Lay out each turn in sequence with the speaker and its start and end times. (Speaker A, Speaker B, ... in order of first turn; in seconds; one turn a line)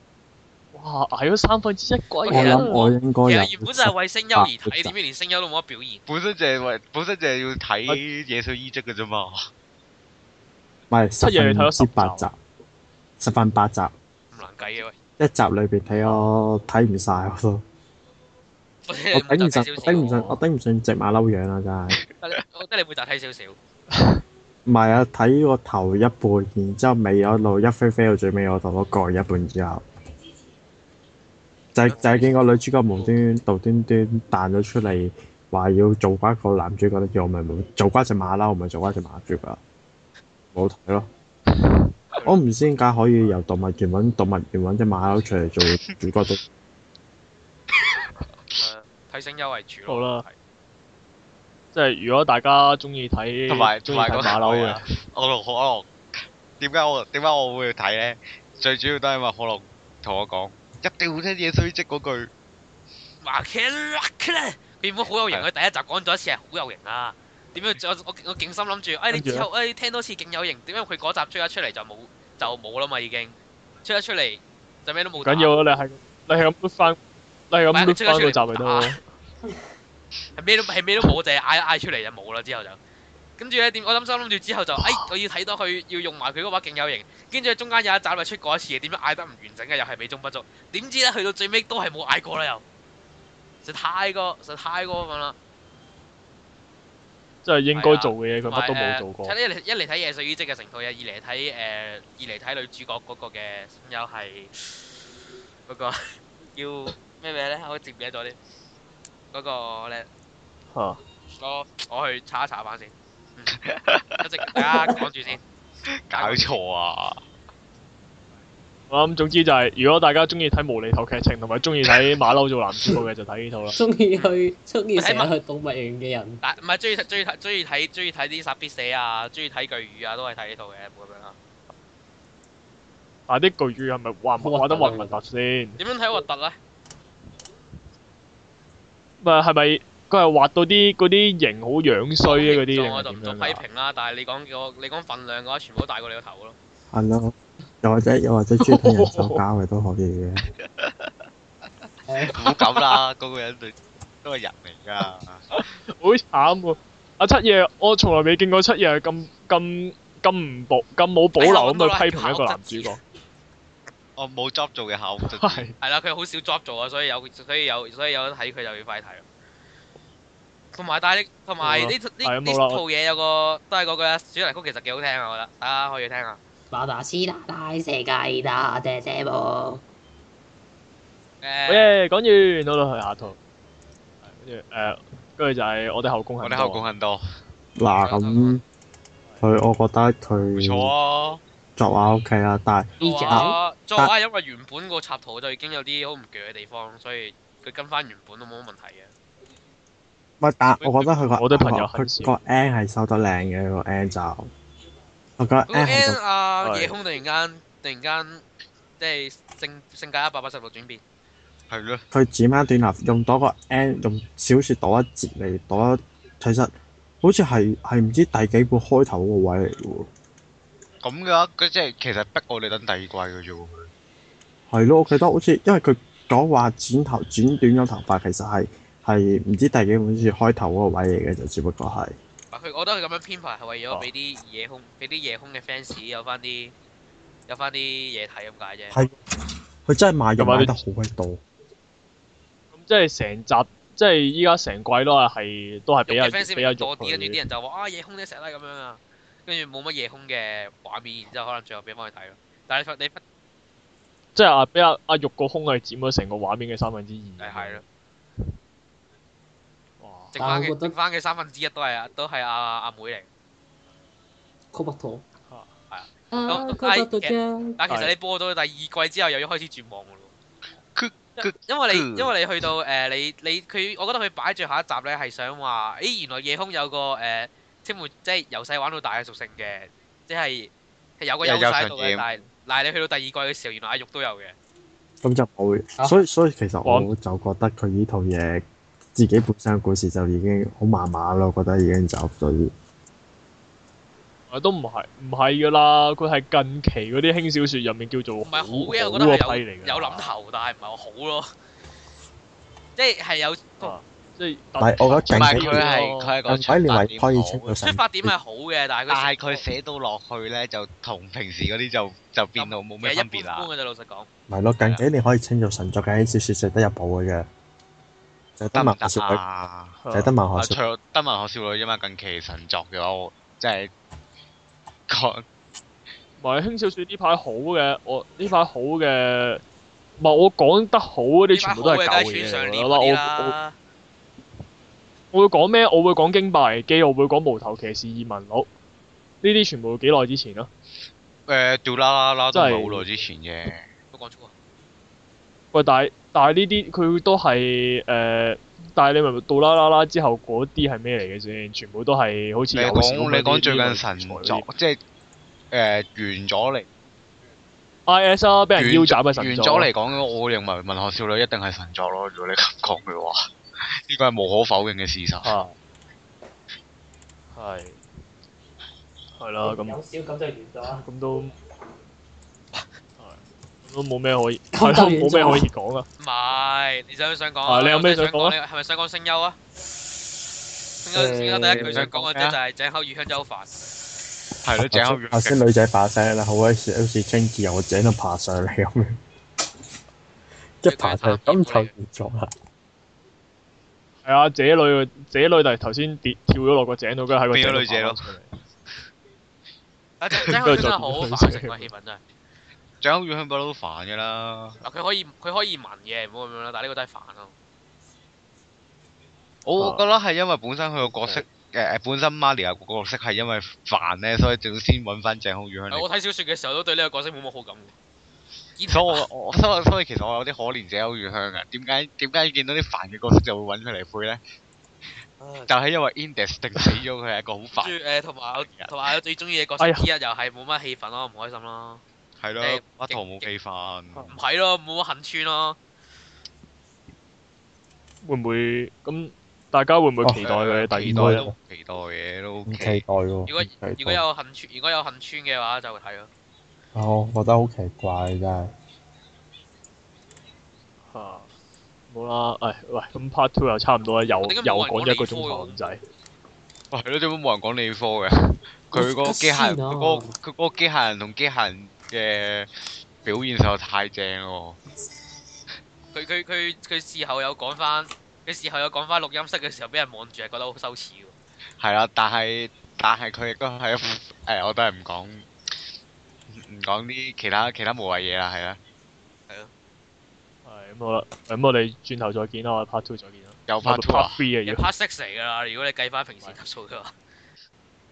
Speaker A: 0.7-2.8
Speaker B: 2.2-6.0
Speaker C: 2.3-4.9
Speaker D: 6.1-9.4
Speaker C: 10.9-12.3
Speaker A: 11.2-12.3
Speaker C: 13.2-13.9
Speaker B: 14.3-14.9
Speaker C: 15.2-17.6
Speaker B: 18.9-20.4
Speaker C: 19.1-22.0
Speaker B: 22.2-23.6
Speaker A: 23.9-24.2
Speaker C: 24.7-29.8
Speaker C: 31.7-39.6
Speaker B: 31.9-32.3
Speaker C: 40.5-41.1
Speaker C: 42.2-46.4
Speaker B: 48.6-50.3
Speaker A: 49.9-50.2
Speaker A: 51.7-54.8
Speaker D: 53.5-55.9
Speaker D: 56.6-62.3
Speaker B: 63.2-75.5
Speaker A: 69.1-69.5
Speaker A: 75.2-77.0
Speaker A: 77.5-79.0
Speaker B: 77.7-79.0
Speaker B: 80.4-82.8
Speaker B: 83.4-92.6
Speaker A: 84.8-85.1
Speaker B: 93.6-95.3
Speaker A: 97.4-99.3
Speaker B: 97.7-104.9
Speaker B: 105.7-108.4
Speaker B: 109.3-110.1
Speaker A: 110.7-111.0
Speaker B: 111.3-113.5
Speaker D: 113.5-114.6
Speaker B: 114.2-115.4
Speaker D: 115.9-117.2
Speaker B: 116.1-116.6
Speaker A: 118.9-123.8
Speaker E: 123.7-126.4
Speaker B: 125.0-125.3
Speaker B: 126.4-131.3
Speaker A: 133.3-135.8
Speaker E: 134.4-135.2
Speaker B: 135.8-136.6
Speaker A: 139.2-143.6
Speaker B: 142.2-146.6
Speaker C: 146.9-150.4
Speaker A: 148.8-149.4
Speaker D: 150.4-151.1
Speaker E: 152.1-152.4
Speaker D: 152.3-155.6
Speaker A: 155.5-163.0
Speaker B: 161.4-163.0
Speaker D: 164.2-165.7
Speaker A: 165.2-165.8
Speaker B: 165.8-169.2
Speaker B: 170.7-176.4
Speaker A: 171.6-172.8
Speaker E: 176.7-179.8
Speaker B: 181.4-181.9
Speaker A: 181.7-183.4
Speaker A: 184.2-186.9
Speaker D: 186.4-187.2
Speaker C: 187.8-188.6
Speaker B: 188.0-188.6
Speaker C: 189.4-190.9
Speaker D: 190.6-191.4
Speaker C: 191.8-194.1
Speaker E: 193.0-193.6
Speaker B: 193.0-199.1
Speaker C: 200.4-204.5
Speaker B: 200.8-201.1
Speaker A: 201.3-202.3
Speaker C: 205.4-206.2
Speaker B: 205.7-208.4
Speaker A: 206.6-206.9
Speaker B: 209.0-211.0
Speaker D: 211.7-212.0
Speaker C: 212.1-220.1
Speaker D: 221.0-223.9
Speaker C: 224.7-232.2
Speaker B: 232.5-236.7
Speaker B: 237.5-239.0
Speaker C: 238.9-239.2
Speaker C: 239.8-241.4
Speaker A: 240.4-240.8
Speaker A: 242.7-247.4
Speaker B: 246.1-253.2
Speaker A: 254.3-257.8
Speaker B: 257.4-257.8
Speaker A: 260.0-260.4
Speaker B: 260.4-263.2
Speaker E: 260.4-260.9
Speaker E: 264.7-265.2
Speaker B: 265.9-270.3
Speaker E: 266.3-267.8
Speaker A: 267.9-268.1
Speaker D: 270.9-272.3
Speaker B: 271.4-284.5
Speaker D: 281.4-282.2
Speaker C: 285.2-292.7
Speaker A: 294.5-300.3
Speaker B: 298.4-301.5
Speaker B: 302.9-303.9
Speaker A: 303.8-306.3
Speaker C: 304.8-305.8
Speaker D: 305.3-307.7
Speaker C: 306.5-308.3
Speaker B: 307.8-309.6
Speaker D: 309.1-313.7
Speaker B: 312.6-314.3
Speaker C: 314.5-317.5
Speaker B: 314.8-315.1
Speaker C: 318.6-319.4
Speaker D: 318.7-319.9
Speaker A: 320.0-320.3
Speaker C: 320.1-320.8
Speaker D: 320.6-323.9
Speaker D: 325.1-325.4
Speaker A: 326.4-329.6
Speaker A: 330.2-333.6
Speaker B: 331.5-333.7
Speaker A: 335.3-338.7
Speaker A: 339.4-340.7
Speaker D: 341.5-343.9
Speaker A: 342.5-343.1
Speaker B: 344.1-344.5
Speaker A: 345.7-354.6
Speaker D: 352.7-355.0
Speaker D: 355.7-356.9
Speaker A: 358.1-359.9
Speaker D: 358.7-363.4
Speaker D: 364.1-365.6
Speaker A: 365.4-365.7
Speaker A: 367.5-368.0
Speaker A: 369.4-370.0
Speaker E: 369.6-371.0
Speaker A: 370.9-371.5
Speaker A: 373.2-376.1
Speaker E: 374.7-375.7
Speaker B: 376.2-379.6
Speaker A: 377.6-378.6
Speaker B: 381.0-383.7
Speaker E: 381.1-382.0
Speaker D: 381.9-382.6
Speaker D: 384.6-385.6
Speaker C: 384.8-389.2
Speaker C: 390.8-392.5
Speaker B: 390.9-391.9
Speaker A: 394.2-398.5
Speaker D: 397.5-398.3
Speaker B: 400.2-402.2
Speaker A: 400.5-401.9
Speaker D: 403.0-404.8
Speaker B: 404.8-407.5
Speaker D: 409.6-416.1
Speaker A: 409.8-410.0
Speaker B: 415.9-417.9
Speaker B: 418.8-419.2
Speaker D: 418.9-424.4
Speaker B: 425.4-425.7
Speaker D: 425.7-427.9
Speaker B: 427.7-432.0
Speaker D: 428.6-428.9
Speaker A: 429.8-430.1
Speaker D: 432.4-434.4
Speaker B: 432.6-433.4
Speaker B: 434.2-435.8
Speaker A: 438.2-441.4
Speaker C: 440.2-441.5
Speaker D: 440.4-443.0
Speaker C: 442.7-444.2
Speaker B: 443.4-446.3
Speaker C: 446.9-448.7
Speaker A: 451.1-451.5
Speaker A: 452.1-456.0
Speaker B: 454.4-455.8
Speaker D: 456.9-464.8
Speaker E: 458.9-460.4
Speaker B: 466.1-471.3
Speaker D: 471.8-475.5
Speaker D: 476.5-478.8
Speaker A: 480.6-484.8
Speaker D: 483.7-484.4
Speaker B: 484.6-487.1